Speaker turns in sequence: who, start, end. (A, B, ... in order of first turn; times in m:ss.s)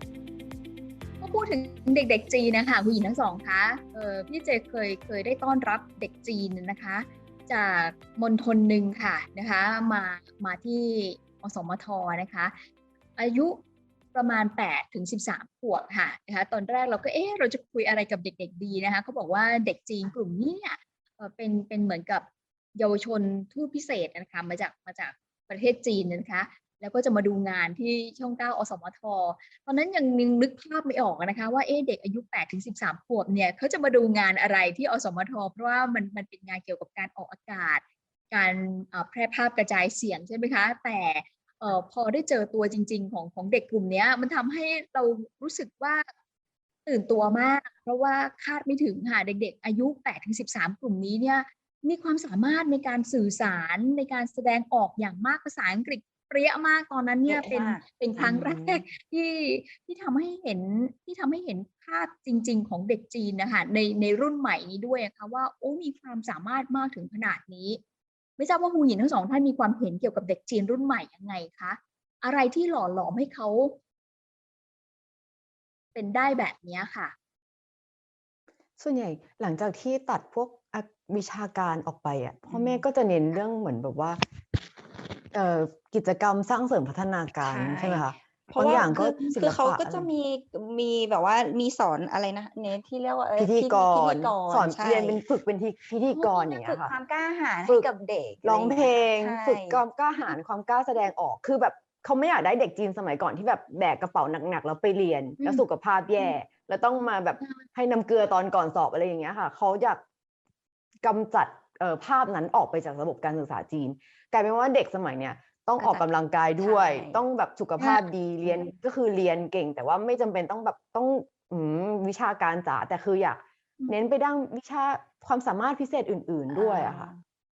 0:01.2-0:12.6 A
0:13.2-0:13.6 A
0:14.1-0:46.1 A
0:46.9-1:07.8 A
0:57.2-0:58.9 B
1:08.4-1:13.8 A
1:16.0-1:17.1 A
1:18.8-1:24.2 C
1:22.5-1:22.8 B
1:25.3-1:30.1 C
1:27.3-1:35.2 B
1:33.4-1:37.0 C
1:36.1-1:36.5 A
1:36.5-1:39.8 B
1:38.4-1:50.0 C
1:51.0-2:07.1 C
1:55.8-1:56.1 B
1:56.6-1:57.2 B
1:57.8-1:58.0 A
1:58.4-1:58.7 B
2:06.5-2:07.2 B